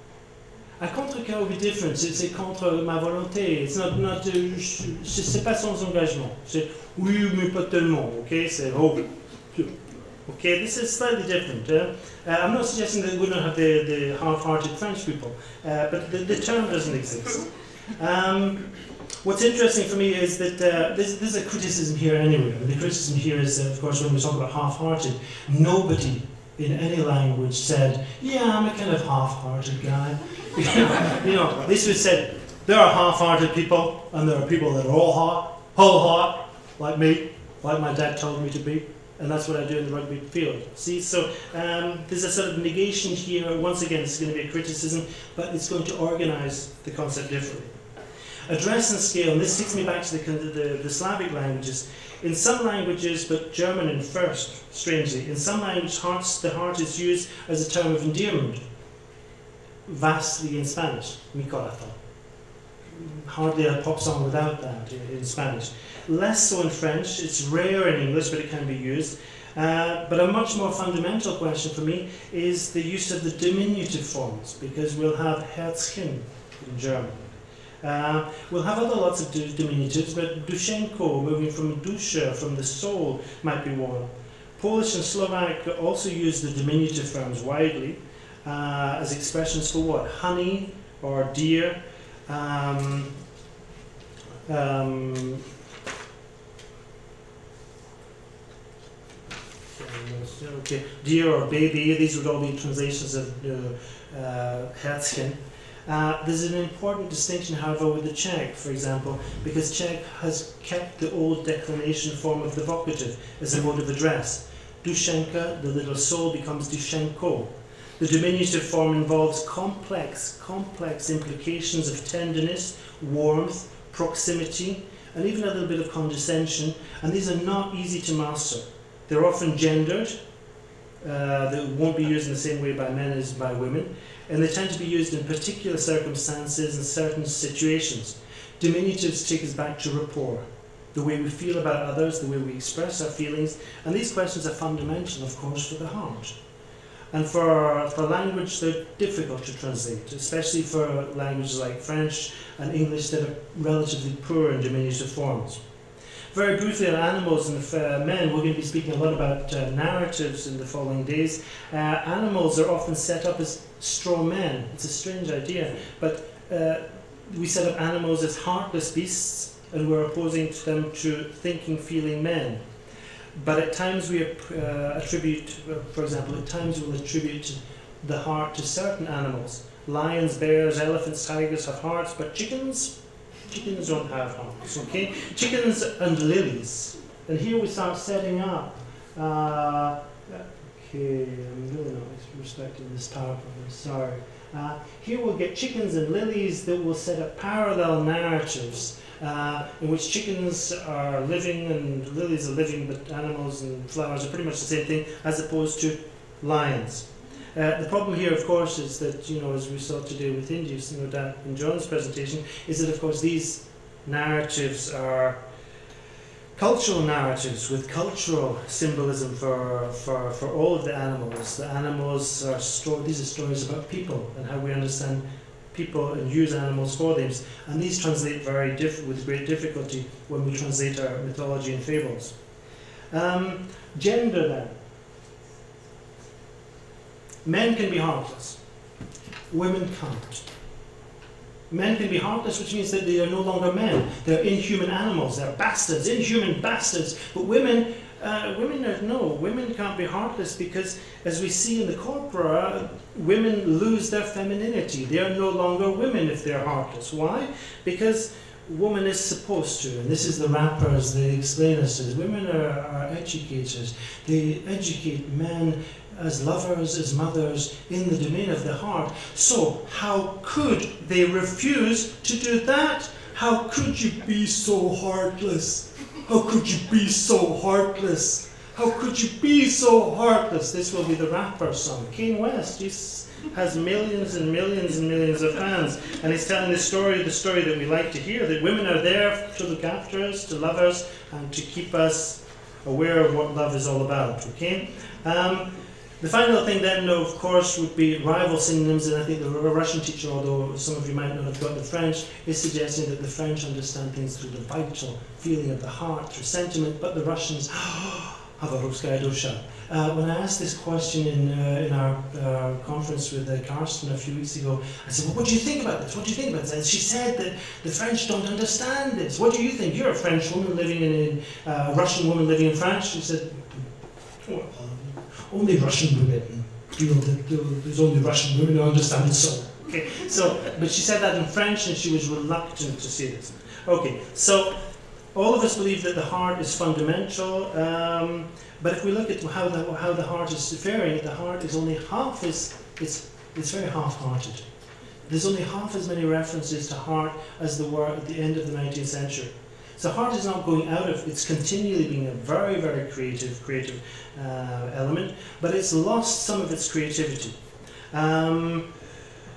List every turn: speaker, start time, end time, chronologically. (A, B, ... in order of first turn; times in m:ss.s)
0:00.8-0:09.7 A
0:10.2-0:18.7 A
0:19.2-0:47.7 A
0:48.5-0:58.6 A
0:59.8-1:02.0 A
1:02.9-1:17.3 A
1:17.8-1:33.1 A
1:34.4-1:35.4 A
1:39.7-2:10.2 A
2:11.0-2:26.3 A
2:27.1-2:35.6 A
2:36.3-2:52.6 A
2:53.4-3:02.9 A
3:03.5-3:35.4 A
3:36.6-3:52.3 A
3:53.1-3:54.8 A
3:57.4-3:58.6 A
3:59.5-4:00.4 A
4:01.7-5:23.9 A
5:24.4-5:34.8 A
5:35.3-5:44.6 A
5:45.3-5:57.6 A
5:58.1-5:58.9 A